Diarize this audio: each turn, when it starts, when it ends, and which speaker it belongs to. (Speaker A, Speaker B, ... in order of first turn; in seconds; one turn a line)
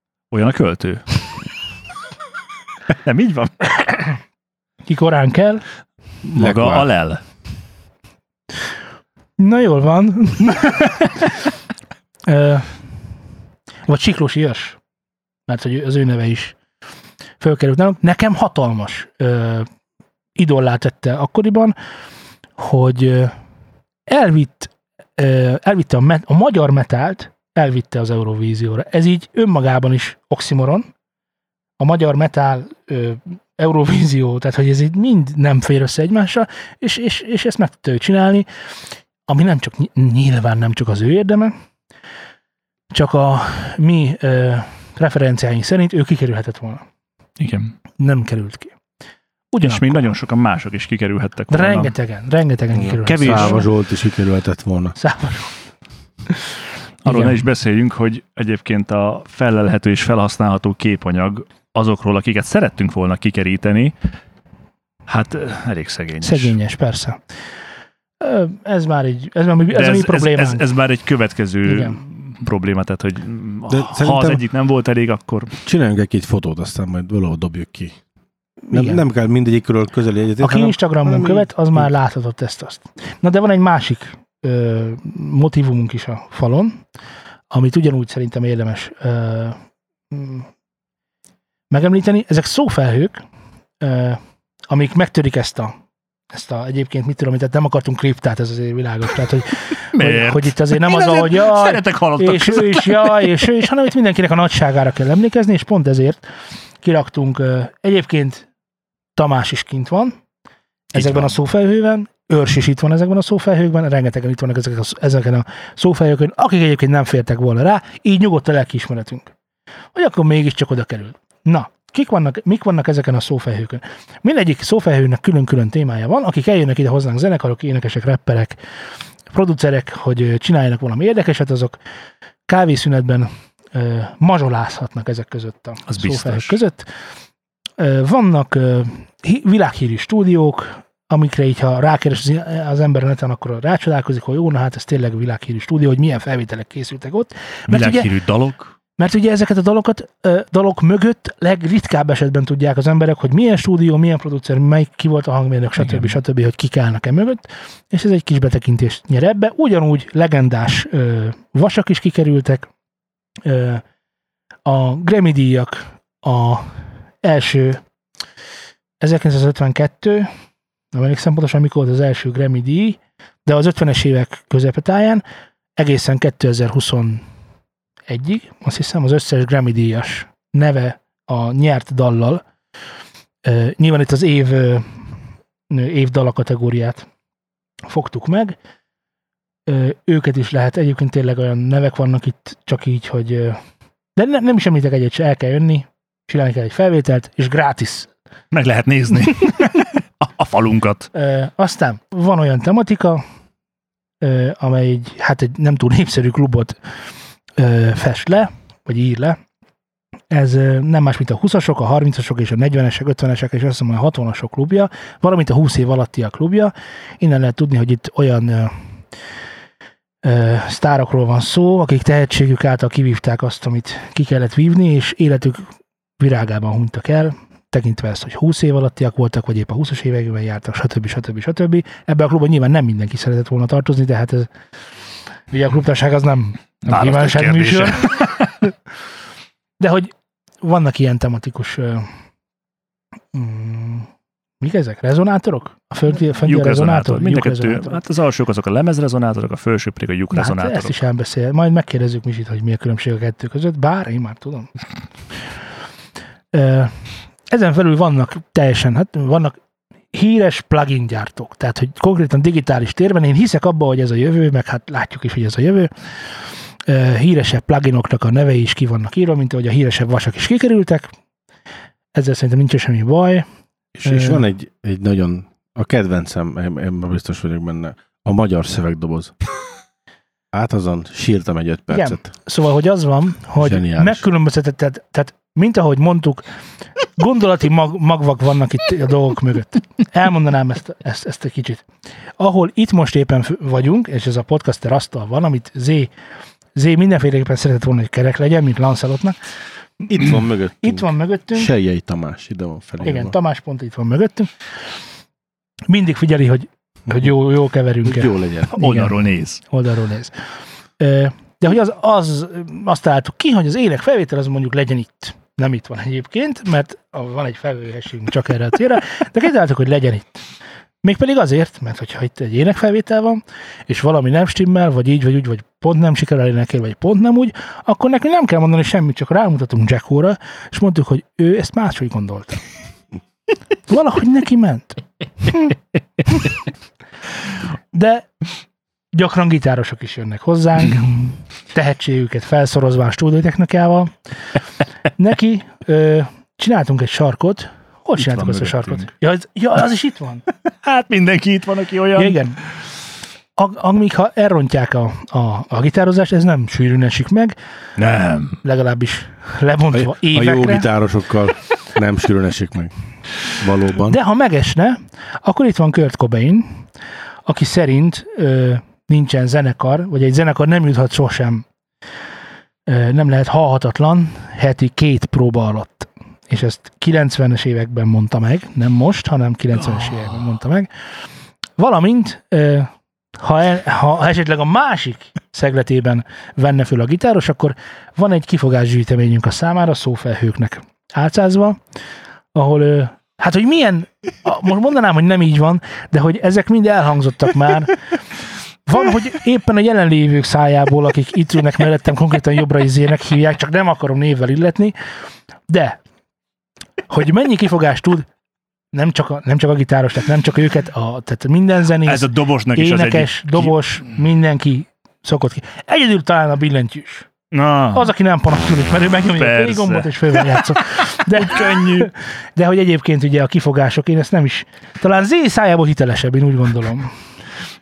Speaker A: 0.3-1.1
Speaker A: 3.0-3.7
Speaker B: 4.9-5.6
Speaker A: 6.2-7.2
Speaker C: 6.4-6.9
Speaker B: 9.4-11.4
Speaker B: 12.2-12.8
Speaker B: 13.8-14.8
Speaker B: 15.5-16.6
Speaker B: 17.4-19.7
Speaker B: 20.4-21.7
Speaker B: 22.6-23.3
Speaker B: 24.1-30.9
Speaker B: 31.8-38.5
Speaker B: 39.3-41.5
Speaker B: 42.9-46.8
Speaker A: 47.4-47.7
Speaker B: 48.0-48.7
Speaker B: 49.5-50.1
Speaker A: 49.6-51.9
Speaker B: 51.5-53.6
Speaker C: 52.7-55.0
Speaker A: 53.0-53.6
Speaker B: 55.0-55.6
Speaker B: 56.3-56.5
Speaker A: 57.0-63.9
Speaker B: 57.0-57.4
Speaker A: 65.1-66.5
Speaker B: 66.2-67.2
Speaker B: 68.2-70.7
Speaker A: 69.7-75.5
Speaker B: 71.7-72.0
Speaker C: 73.7-74.4
Speaker C: 75.6-78.0
Speaker B: 78.6-79.0
Speaker C: 78.7-81.9
Speaker B: 80.4-86.8
Speaker B: 87.5-89.6
Speaker B: 90.1-90.5
Speaker B: 91.7-93.2
Speaker B: 93.8-95.7
Speaker B: 96.3-106.3
Speaker A: 99.9-103.4
Speaker B: 106.8-108.5
Speaker B: 109.2-110.2
Speaker A: 110.9-111.3
Speaker B: 110.9-119.3
Speaker B: 119.9-128.6
Speaker B: 129.3-131.8
Speaker B: 132.5-136.9
Speaker A: 135.9-136.6
Speaker B: 137.8-148.1
Speaker A: 147.7-148.7
Speaker B: 149.0-162.7
Speaker A: 155.8-156.2
Speaker B: 163.4-163.8
Speaker B: 164.7-167.8
Speaker B: 169.0-170.3
Speaker B: 170.9-175.2
Speaker B: 175.8-177.2
Speaker B: 178.1-182.4
Speaker B: 183.4-185.1
Speaker B: 185.7-187.1
Speaker B: 187.8-188.6
Speaker B: 189.7-193.6
Speaker B: 194.2-198.1
Speaker A: 198.5-201.1
Speaker B: 201.1-203.2
Speaker B: 204.2-206.8
Speaker B: 207.6-209.4
Speaker B: 210.3-218.9
Speaker B: 220.2-234.5
Speaker B: 235.5-238.7
Speaker A: 236.9-238.5
Speaker B: 239.8-242.1
Speaker B: 243.3-244.1
Speaker B: 244.6-248.0
Speaker A: 246.3-250.9
Speaker B: 250.3-254.7
Speaker B: 256.5-259.6
Speaker B: 260.1-271.1
Speaker B: 272.1-273.4
Speaker C: 274.0-279.3
Speaker B: 274.0-274.4
Speaker C: 280.5-282.3
Speaker B: 281.9-286.4
Speaker C: 283.6-284.2
Speaker B: 287.1-291.9
Speaker B: 292.4-296.1
Speaker B: 296.7-299.4
Speaker B: 300.0-301.7
Speaker C: 300.1-303.3
Speaker B: 303.0-304.7
Speaker B: 305.9-310.4
Speaker C: 308.0-308.7
Speaker A: 308.7-309.6
Speaker B: 311.0-320.4
Speaker B: 321.0-332.6
Speaker B: 333.9-335.8
Speaker B: 337.9-338.4
Speaker B: 339.1-344.1
Speaker B: 345.2-350.4
Speaker A: 348.2-349.1
Speaker A: 350.7-352.4
Speaker B: 352.1-352.6
Speaker B: 353.6-357.6
Speaker A: 358.0-358.6
Speaker B: 358.6-360.9
Speaker C: 359.9-362.9
Speaker C: 363.5-364.2
Speaker B: 364.0-366.9
Speaker B: 367.4-371.6
Speaker B: 372.9-380.9
Speaker B: 381.8-391.8
Speaker B: 392.5-398.0
Speaker B: 398.9-404.9
Speaker B: 405.7-406.0
Speaker B: 407.1-408.2
Speaker B: 408.9-417.3
Speaker A: 412.0-413.8
Speaker A: 417.5-418.1
Speaker B: 417.9-427.1
Speaker A: 419.3-422.1